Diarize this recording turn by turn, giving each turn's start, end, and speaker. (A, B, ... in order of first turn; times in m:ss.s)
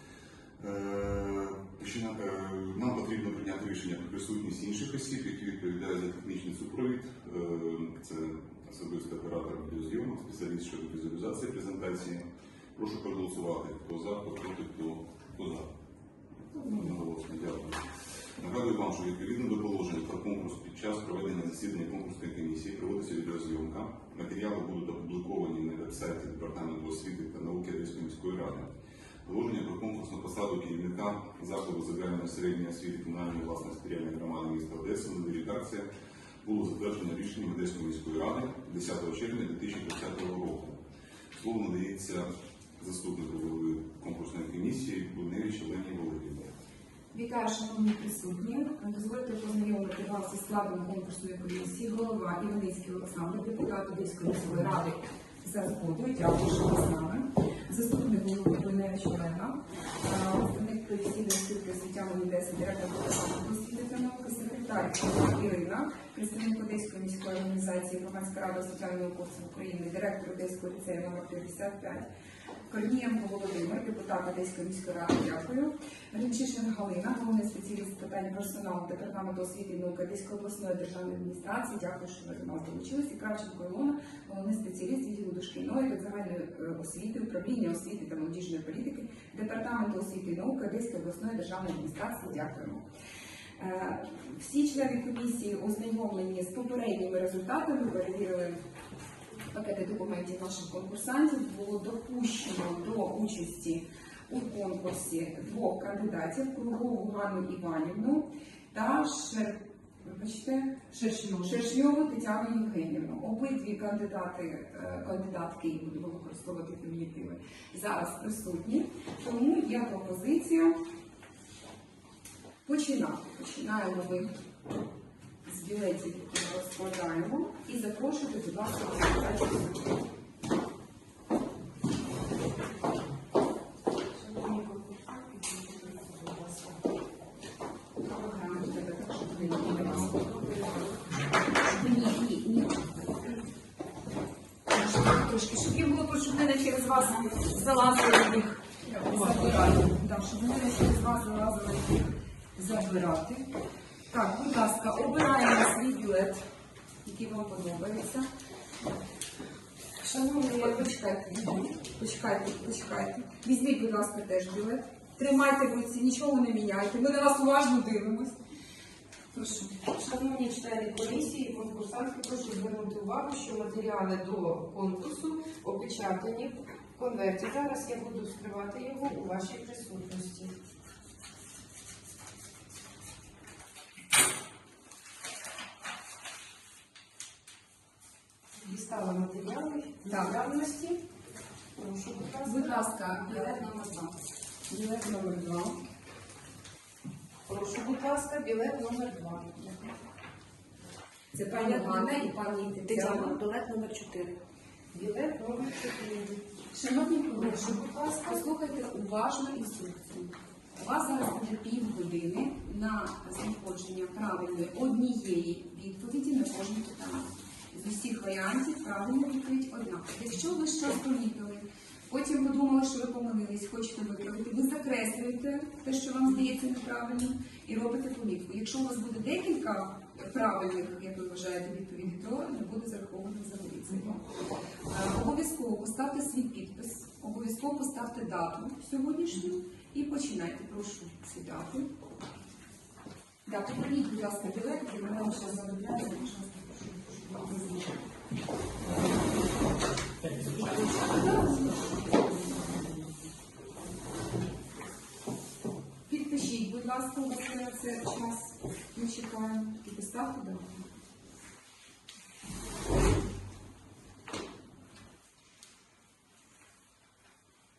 0:00.6-0:15.7 A
0:16.5-0:16.9 B
0:16.6-0:17.8 A
0:18.4-0:28.7 A
0:29.2-0:35.9 A
0:36.4-0:40.8 A
0:41.3-0:46.5 A
0:47.1-1:12.1 B
1:12.7-1:32.8 B
1:33.6-1:38.6 B
1:39.5-2:00.8 B
1:50.9-1:51.5 C
2:02.6-2:04.3 B
2:05.4-2:10.0 B
2:14.1-2:16.8 C
2:18.0-2:20.6 B
2:20.4-2:20.8 C
2:21.6-2:23.5 B
2:24.7-2:33.5 B
2:34.1-2:36.4 B
2:37.0-2:38.3 B
2:40.0-2:48.4 B
2:49.3-2:49.7 B
2:49.7-3:00.5 C
3:08.6-3:11.0 C
3:10.1-3:10.4 B
3:11.8-3:13.7 C
3:12.4-3:14.2 B
3:14.7-3:15.8 B
3:17.5-3:19.6 C
3:19.6-3:19.9 B
3:21.3-3:23.4 B
3:21.5-3:22.3 C
3:22.9-3:24.3 C
3:24.9-3:26.4 C
3:26.7-3:54.2 B
3:27.3-3:28.4 C
3:54.9-4:01.9 B
4:03.5-4:08.0 B
4:10.4-4:13.2 B
4:16.1-4:20.8 B